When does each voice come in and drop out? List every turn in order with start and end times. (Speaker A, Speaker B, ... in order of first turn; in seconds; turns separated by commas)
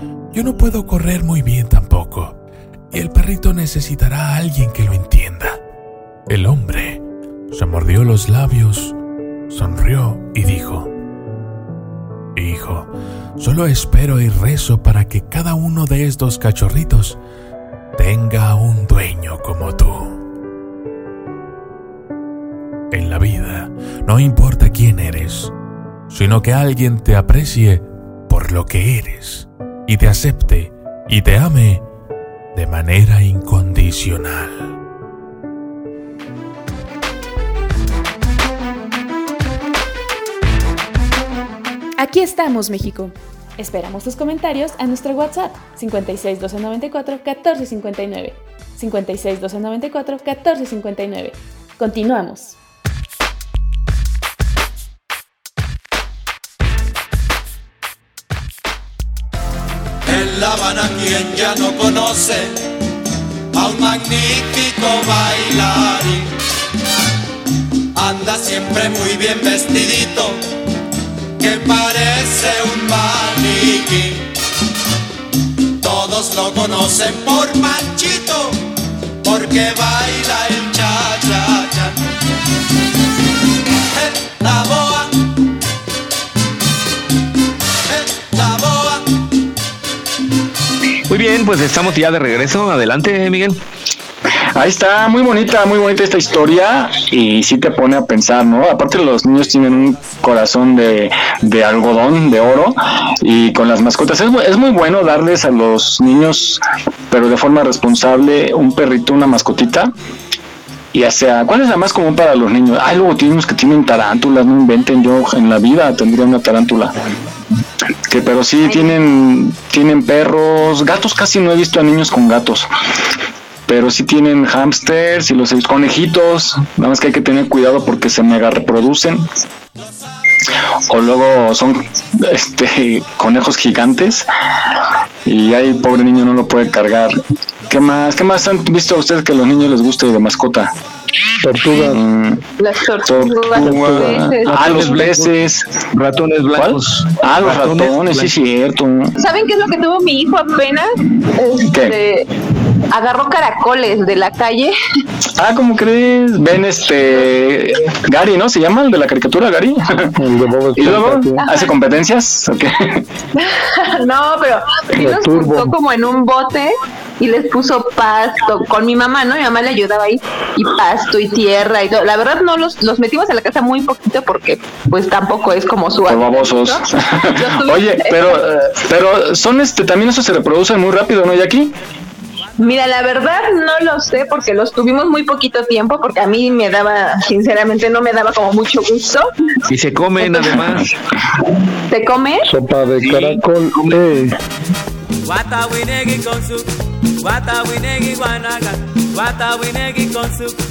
Speaker A: 0.3-2.4, Speaker A: 2.9-5.6, Speaker A: 6.3-9.0, Speaker A: 9.5-10.9, Speaker A: 12.3-17.2, Speaker A: 18.0-20.2, Speaker A: 22.9-25.5, Speaker A: 26.1-31.9, Speaker A: 32.5-34.8, Speaker B: 42.0-52.6, Speaker C: 60.1-62.6, Speaker C: 63.5-66.3, Speaker C: 68.0-70.4, Speaker C: 71.4-74.3, Speaker C: 75.8-78.6, Speaker C: 79.2-82.0, Speaker C: 83.8-85.2, Speaker C: 88.1-89.1, Speaker D: 91.1-93.6, Speaker E: 94.5-109.9, Speaker E: 110.9-116.9, Speaker E: 118.1-122.7, Speaker F: 118.7-118.9, Speaker E: 123.7-129.2, Speaker E: 130.9-134.3, Speaker E: 135.3-137.2, Speaker E: 137.7-140.7, Speaker G: 141.4-142.0, Speaker E: 141.8-142.4, Speaker F: 142.6-144.6, Speaker E: 143.0-145.7, Speaker G: 143.6-145.1, Speaker D: 144.5-145.3, Speaker D: 145.9-148.3, Speaker E: 146.6-149.1, Speaker F: 149.2-152.3, Speaker E: 151.7-151.9, Speaker F: 152.9-154.8, Speaker E: 155.4-160.1, Speaker G: 160.2-161.4, Speaker E: 160.8-163.0, Speaker F: 161.4-161.7, Speaker F: 163.4-176.8, Speaker G: 164.9-165.8, Speaker E: 176.1-181.7, Speaker F: 177.4-178.4, Speaker F: 182.6-189.3, Speaker D: 189.7-190.9, Speaker F: 191.9-192.4, Speaker G: 192.4-194.3, Speaker D: 193.0-194.0, Speaker H: 195.2-196.7, Speaker H: 197.2-200.6